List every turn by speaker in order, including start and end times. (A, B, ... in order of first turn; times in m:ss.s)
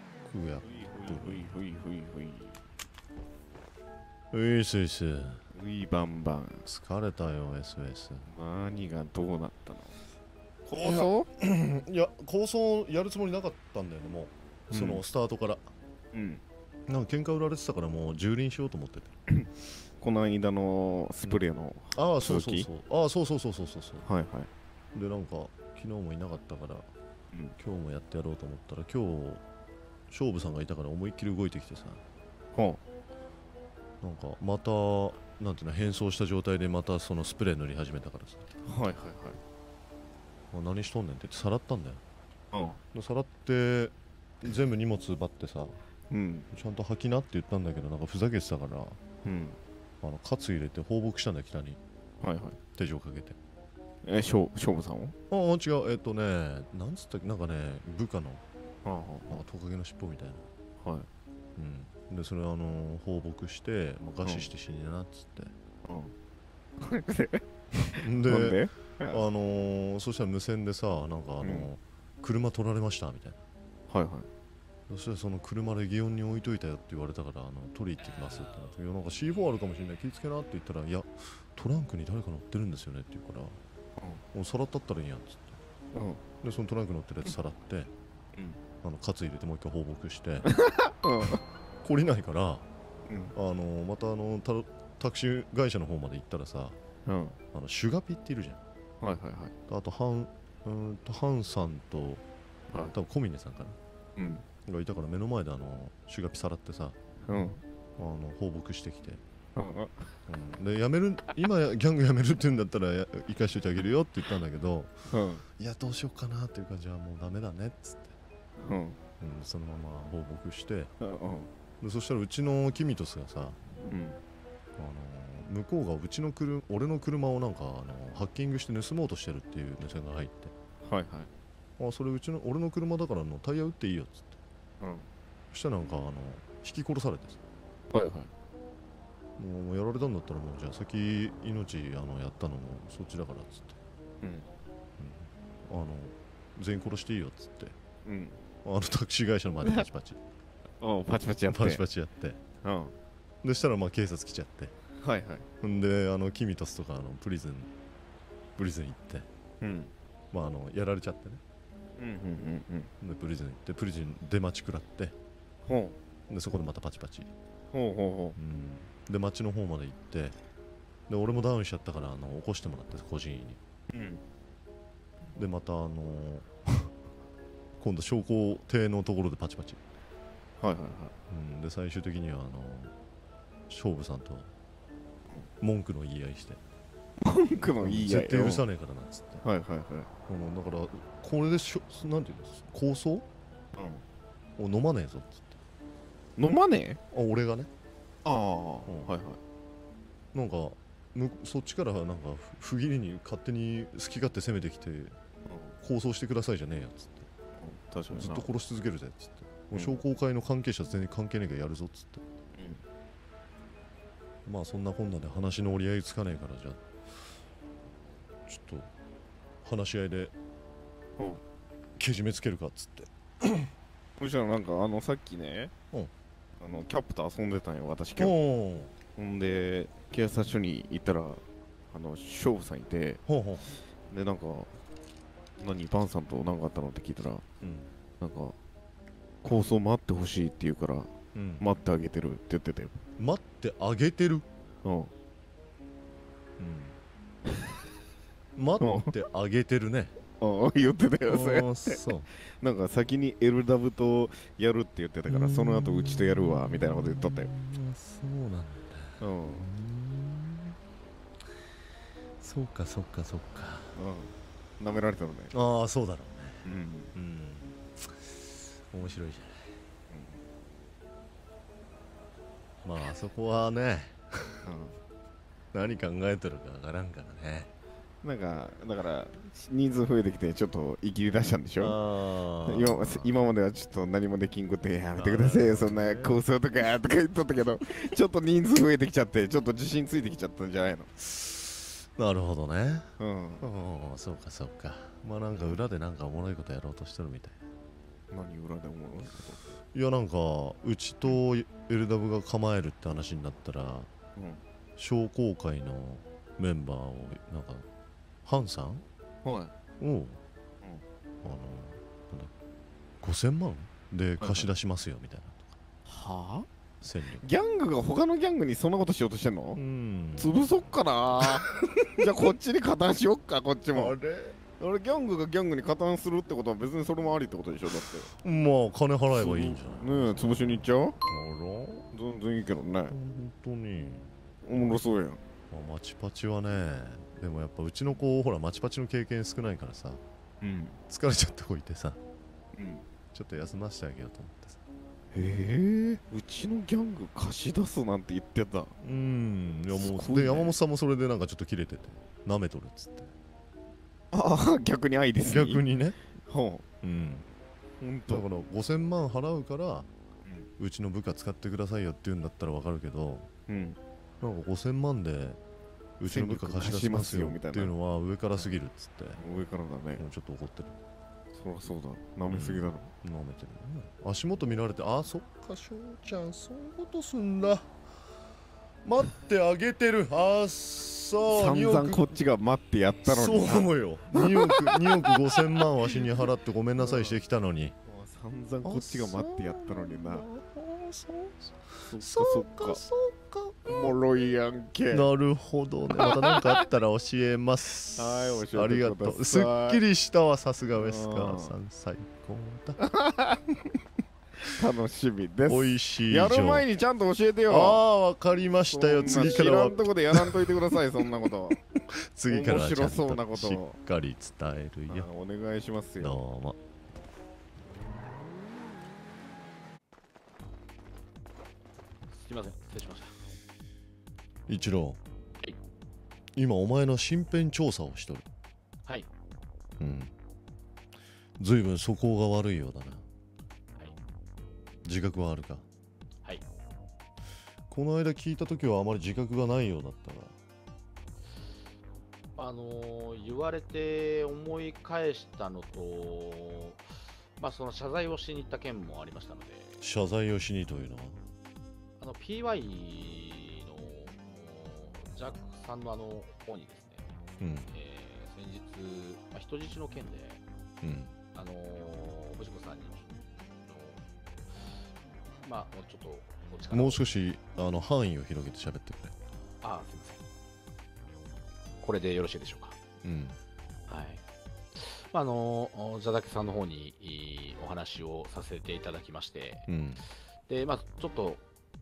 0:00.3-0:01.5 A
0:00.6-0:02.6 B
0:04.3-0:05.4 A
0:05.5-0:06.6 B
0:06.7-0:08.3 A
0:08.3-0:10.0 B
0:10.7-0:11.3 B
0:10.8-0:15.6 A
0:14.7-0:15.0 B
0:16.1-0:16.4 B
0:16.9-0:19.2 A
0:20.0-0:22.7 B
0:22.0-0:24.1 A
0:24.0-0:24.5 B
0:24.9-0:26.9 A
0:27.6-0:29.4 A
0:30.1-0:32.0 A
0:32.5-0:32.8 B
0:34.0-0:38.4 A
0:38.7-0:39.4 B
0:40.5-0:42.0 A
0:42.5-0:42.8 B
0:42.9-0:45.8 A
0:46.1-0:46.5 B
0:46.5-0:49.0 A
0:49.2-0:49.6 B
0:50.0-0:51.8 A
0:52.2-0:52.6 B
0:52.8-0:53.4 A
0:54.0-0:55.2 B
0:55.3-0:58.4 A
0:58.8-0:59.4 B
0:59.3-1:00.5 A
1:00.8-1:01.1 B
1:01.6-1:05.5 A
1:04.2-1:04.5 B
1:05.9-1:06.1 B
1:06.8-1:09.2 B
1:08.0-1:13.4 A
1:11.4-1:11.7 B
1:13.9-1:14.3 B
1:14.9-1:23.6 A
1:24.3-1:25.6 A
1:25.9-1:26.2 B
1:26.4-1:27.9 A
1:28.8-1:30.5 A
1:30.5-1:31.4 B
1:31.8-1:32.7 A
1:33.1-1:33.4 B
1:33.3-1:36.8 A
1:37.1-1:37.4 B
1:37.5-1:38.6 A
1:39.0-1:39.5 B
1:39.7-1:42.2 A
1:42.8-1:43.8 A
1:44.2-1:44.4 B
1:44.6-1:47.0 A
1:47.3-1:47.6 B
1:48.0-1:49.2 A
1:49.6-1:50.1 B
1:50.3-1:58.2 A
1:55.1-1:55.4 B
1:58.6-1:59.0 B
1:59.2-2:00.9 A
2:01.0-2:01.5 B
2:01.8-2:03.6 A
2:03.8-2:04.2 B
2:04.8-2:10.5 A
2:10.8-2:11.3 B
2:11.8-2:14.4 A
2:14.8-2:15.1 B
2:15.5-2:17.4 A
2:17.9-2:18.3 B
2:19.4-2:23.8 A
2:25.0-2:27.8 A
2:28.0-2:28.4 B
2:28.6-2:30.2 A
2:30.8-2:31.8 B
2:31.5-2:32.4 A
2:32.6-2:32.9 B
2:33.4-2:34.8 A
2:35.0-2:35.5 B
2:35.6-2:37.7 A
2:38.6-2:39.3 A
2:39.6-2:39.9 B
2:40.3-2:41.4 A
2:42.0-2:42.9 B
2:43.0-2:45.2 A
2:45.7-2:46.0 B
2:46.3-2:47.3 A
2:47.7-2:48.4 B
2:48.4-2:50.4 A
2:51.1-2:53.6 A
2:53.9-2:54.2 B
2:55.4-2:56.9 A
2:57.8-2:59.8 A
3:00.6-3:01.1 B
3:01.3-3:02.9 A
3:03.7-3:04.5 A
3:05.6-3:06.6 A
3:07.2-3:08.6 B
3:07.8-3:09.4 A
3:09.4-3:10.1 B
3:10.3-3:13.3 A
3:13.8-3:14.0 B
3:14.6-3:15.6 A
3:16.4-3:17.0 B
3:17.1-3:17.7 A
3:18.2-3:19.4 B
3:18.9-3:19.2 A
3:20.3-3:25.2 A
3:25.5-3:25.8 B
3:25.8-3:27.3 A
3:27.6-3:28.5 B
3:28.1-3:32.2 A
3:32.6-3:32.8 B
3:34.5-3:37.3 A
3:38.5-3:38.9 A
3:39.6-3:40.3 A
3:42.0-3:43.7 A
3:44.2-3:45.7 B
3:46.6-3:48.4 B
3:48.2-3:48.9 A
3:49.2-3:53.2 B
3:53.3-3:53.8 A
3:54.1-3:54.8 B
3:55.6-3:57.4 B
3:57.6-3:57.9 A
3:58.2-3:58.5 B
3:59.4-4:03.0 B
4:01.3-4:01.6 A
4:03.2-4:04.5 A
4:04.8-4:05.1 B
4:06.6-4:07.0 A
4:08.6-4:10.2 A
4:08.8-4:09.1 B
4:10.4-4:17.5 B
4:11.3-4:12.3 A
4:15.3-4:20.8 A
4:19.2-4:19.7 B
4:22.4-4:23.9 A
4:24.0-4:25.5 B
4:25.5-4:29.8 A
4:26.6-4:27.1 B
4:30.1-4:30.4 B
4:32.8-4:34.7 A
4:34.6-4:35.0 B
4:35.7-4:37.7 A
4:38.2-4:42.0 B
4:41.8-4:43.3 A
4:42.6-4:51.1 B
4:45.2-4:46.4 A
4:51.2-4:53.1 A
4:53.2-4:53.6 B
4:53.6-4:57.6 A
4:58.3-4:59.8 B
4:59.9-5:04.1 A
5:04.4-5:04.6 B
5:05.0-5:07.9 A
5:08.4-5:09.0 A
5:09.4-5:09.7 B
5:10.0-5:10.4 A
5:11.4-5:12.5 A
5:13.2-5:15.7 A
5:14.4-5:14.7 B
5:16.1-5:16.7 B
5:17.0-5:17.5 A
5:17.4-5:19.8 B
5:19.8-5:20.6 A
5:20.4-5:24.2 B
5:21.4-5:22.1 A
5:23.9-5:24.6 A
5:24.8-5:28.3 B
5:28.4-5:32.1 A
5:29.3-5:31.2 B
5:32.1-5:33.2 B
5:33.1-5:35.0 A
5:34.6-5:35.4 B
5:35.7-5:40.2 A
5:40.6-5:41.0 B
5:41.1-5:42.2 A
5:42.8-5:43.0 B
5:43.3-5:44.8 A
5:45.3-5:49.0 B
5:49.0-5:53.3 A
5:49.9-5:50.8 B
5:54.3-5:55.8 B
5:55.4-5:56.2 A
5:56.4-5:56.8 B
5:57.0-5:57.5 A
5:58.0-5:58.4 B
5:58.3-6:00.1 A
6:00.8-6:03.5 A
6:03.7-6:04.0 B
6:04.4-6:05.6 A
6:06.2-6:09.4 A
6:06.3-6:07.9 B
6:09.4-6:10.2 B
6:10.2-6:11.0 A
6:11.5-6:13.1 B
6:12.5-6:17.9 A
6:19.0-6:22.3 A
6:21.5-6:25.8 B
6:23.2-6:28.0 A
6:27.0-6:27.4 B
6:28.1-6:30.5 B
6:28.8-6:34.1 A
6:32.1-6:33.0 B
6:33.9-6:35.3 B
6:35.1-6:43.0 A
6:36.1-6:36.8 B
6:38.2-6:40.0 B
6:41.0-6:41.8 B
6:43.0-6:43.6 B
6:44.6-6:48.0 B
6:45.7-6:46.8 A
6:47.7-6:50.7 A
6:48.9-6:51.8 B
6:52.0-6:55.3 A
6:52.5-6:54.0 B
6:55.1-6:56.4 B
6:56.2-6:56.8 A
7:02.3-7:03.4 C
7:04.7-7:05.2 A
7:06.6-7:08.5 A
7:10.0-7:10.3 A
7:11.6-7:13.2 A
7:15.0-7:15.9 A
7:17.9-7:20.6 A
7:22.6-7:27.0 C
7:27.6-7:30.0 C
7:30.0-7:31.4 A
7:32.2-7:37.3 C
7:37.6-7:37.9 A
7:37.9-7:40.6 C
7:41.0-7:41.4 A
7:41.5-7:43.3 C
7:43.9-7:44.2 C
7:45.6-7:47.2 C
7:46.9-7:49.4 A
7:49.8-7:50.4 C
7:52.0-7:53.0 C
7:53.2-7:53.6 A
7:54.1-7:54.4 C
7:55.0-7:59.9 C
7:59.9-8:00.3 A
8:00.7-8:01.6 C